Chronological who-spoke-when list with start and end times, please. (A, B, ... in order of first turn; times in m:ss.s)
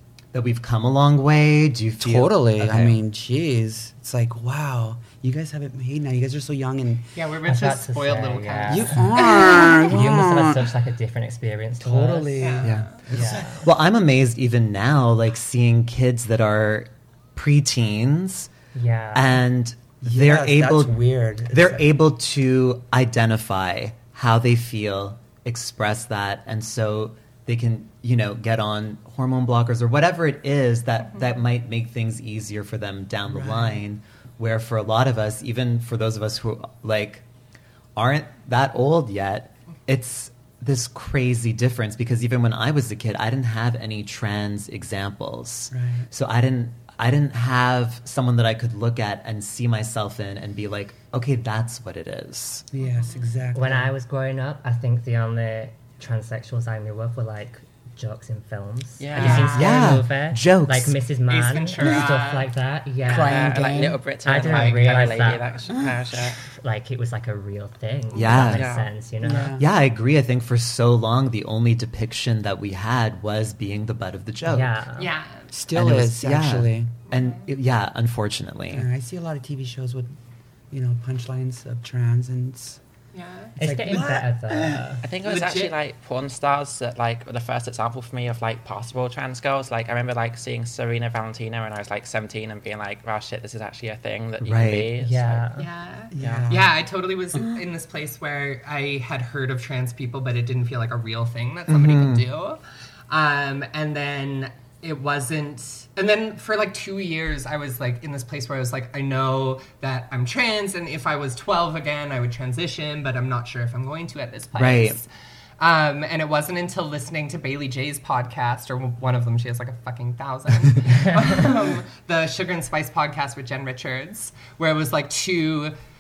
0:00.3-0:03.0 A
0:02.0-0:07.1 B
0:07.2-0:09.9 C
0:07.4-0:09.2 D
0:08.7-0:10.7 B
0:09.8-0:13.7 D
0:11.8-0:13.7 B
0:12.4-0:13.0 C
0:12.6-0:18.5 A
0:18.7-0:19.4 D
0:19.1-0:37.2 A
0:20.0-0:21.9 B
0:33.3-0:33.8 B
0:38.0-0:52.7 A
0:45.7-0:46.1 B
0:52.7-0:53.9 B
0:52.8-0:53.2 C
0:53.5-1:03.6 D
0:59.0-0:59.6 E
0:59.1-0:59.9 C
0:59.5-1:01.0 A
1:01.3-1:02.5 C
1:03.0-1:04.0 B
1:03.2-1:06.4 E
1:04.2-1:05.6 D
1:04.5-1:04.9 C
1:06.4-1:09.6 D
1:08.1-1:08.7 A
1:08.4-1:08.9 E
1:09.2-1:09.7 B
1:09.6-1:14.8 A
1:14.4-1:15.1 D
1:15.0-1:15.5 C
1:15.5-1:17.0 B
1:15.7-1:18.9 A
1:17.1-1:17.4 C
1:18.7-1:20.1 B
1:20.7-1:22.8 B
1:23.1-1:23.6 C
1:23.6-1:25.0 B
1:23.6-1:25.1 D
1:25.0-1:35.5 E
1:25.2-1:25.8 C
1:34.4-1:34.9 A
1:35.0-1:35.7 D
1:35.6-1:55.1 C
1:36.1-1:36.8 B
1:36.2-1:36.6 E
1:41.7-1:42.2 A
1:54.6-1:55.0 A
1:55.6-2:05.7 C